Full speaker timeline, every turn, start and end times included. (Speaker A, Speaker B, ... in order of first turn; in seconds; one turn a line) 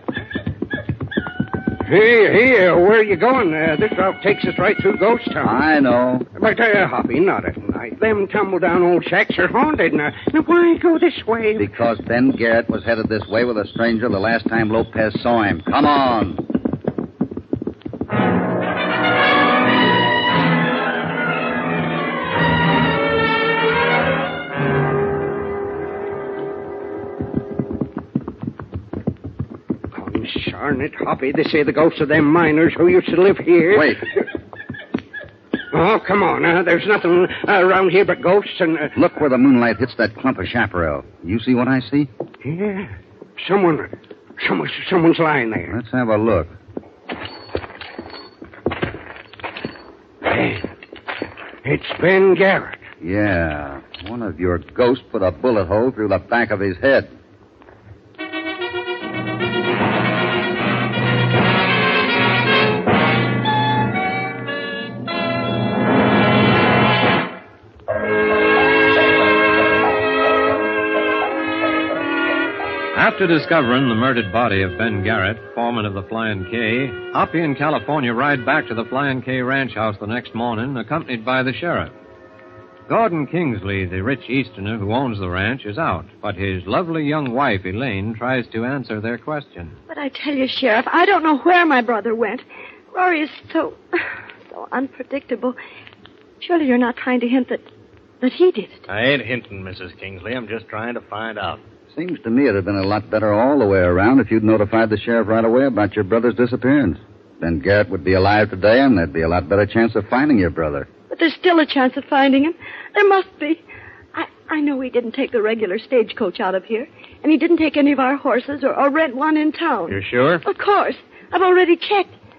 Speaker A: 1.9-5.6
Speaker B: 5.4-6.3
Speaker A: 6.4-11.7
Speaker B: 11.6-16.4
Speaker A: 29.9-34.0
Speaker B: 33.7-34.0
Speaker A: 35.7-39.0
Speaker B: 39.0-42.1
Speaker A: 42.4-45.7
Speaker B: 45.7-46.5
Speaker A: 50.2-50.7
Speaker A: 51.6-52.8
Speaker B: 53.0-57.1
Speaker C: 72.9-81.9
Speaker C: 82.9-89.8
Speaker D: 89.9-93.8
Speaker D: 94.5-95.6
Speaker D: 96.4-97.7
Speaker D: 98.2-98.9
Speaker E: 98.9-101.6
Speaker B: 101.9-110.9
Speaker D: 111.1-113.6
Speaker D: 114.1-122.1
Speaker E: 119.9-120.4